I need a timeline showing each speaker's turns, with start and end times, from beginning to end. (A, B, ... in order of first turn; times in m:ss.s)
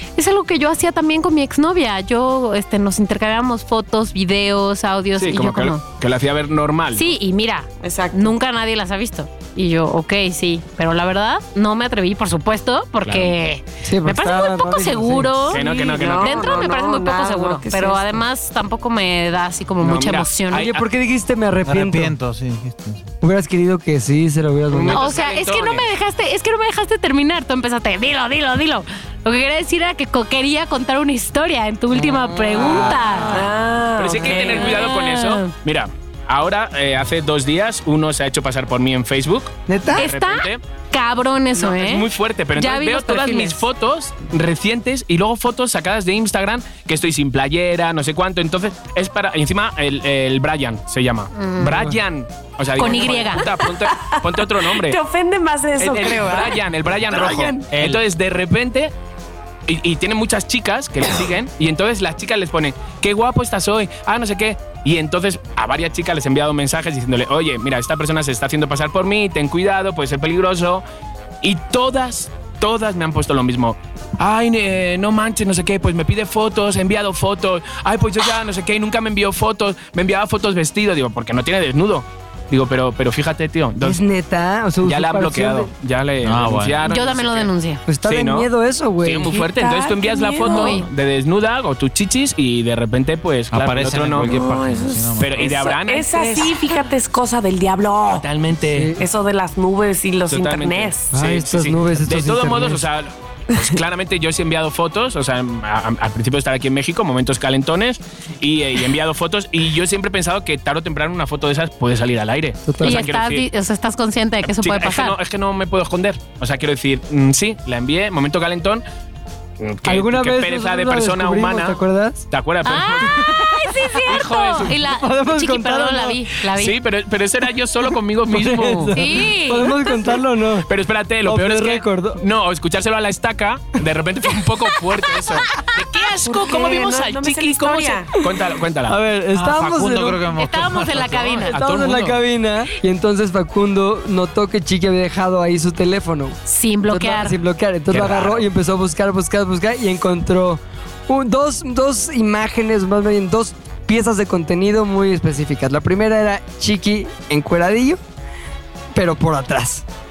0:00.2-0:05.8 A
0:05.2-0:07.1 B
0:06.9-0:20.7 A
0:07.8-0:08.3 C
0:13.0-0:13.3 B
0:13.8-0:15.5 D
0:15.5-0:16.6 B
0:15.5-0:18.2 C
0:19.8-0:20.8 B
0:20.5-0:22.2 D
0:21.6-0:23.1 E
0:23.2-0:25.0 D
0:24.7-0:25.8 B
0:24.9-0:33.5 A
0:31.9-0:33.3 D
0:32.6-0:33.0 B
0:33.3-0:34.8 C
0:34.0-0:40.6 B
0:34.3-0:35.5 A
0:39.7-0:40.1 D
0:40.0-0:43.6 A
0:41.6-0:55.0 B
0:51.3-0:51.9 A
0:51.7-0:52.0 D
0:52.8-0:53.5 A
0:52.8-0:56.6 C
0:55.8-0:58.9 B
0:56.1-0:56.5 D
0:57.1-0:57.7 D
0:59.7-1:10.8 B
1:11.4-1:24.0 B
1:23.8-1:25.7 D
1:24.8-1:27.5 B
1:26.2-1:26.9 E
1:26.8-1:27.8 A
1:27.9-1:29.4 D
1:28.1-1:28.5 B
1:29.0-1:34.4 B
1:29.3-1:30.8 C
1:30.4-1:30.9 A
1:33.5-1:35.5 E
1:34.2-1:38.3 C
1:35.2-1:36.4 B
1:36.2-1:36.5 A
1:38.2-1:39.0 B
1:38.6-1:39.0 D
1:39.0-1:41.1 C
1:40.3-1:53.5 B
1:41.1-1:42.8 D
1:52.7-1:53.1 D
1:52.8-1:55.2 A
1:54.4-1:58.8 B
1:59.6-2:03.2 B
1:59.8-2:02.3 D
2:02.6-2:06.8 A
2:03.2-2:04.1 D
2:04.0-2:04.8 B
2:04.6-2:06.2 D
2:06.6-2:09.0 B
2:08.2-2:10.7 D
2:08.9-2:10.2 A
2:10.7-2:19.0 B
2:11.2-2:12.2 D
2:16.2-2:18.2 C
2:18.9-2:20.2 D
2:19.3-2:21.5 E
2:20.4-2:21.6 A
2:21.5-2:22.2 B
2:21.5-2:38.0 D
2:26.5-2:27.4 A
2:27.9-2:28.5 B
2:38.9-2:39.9 D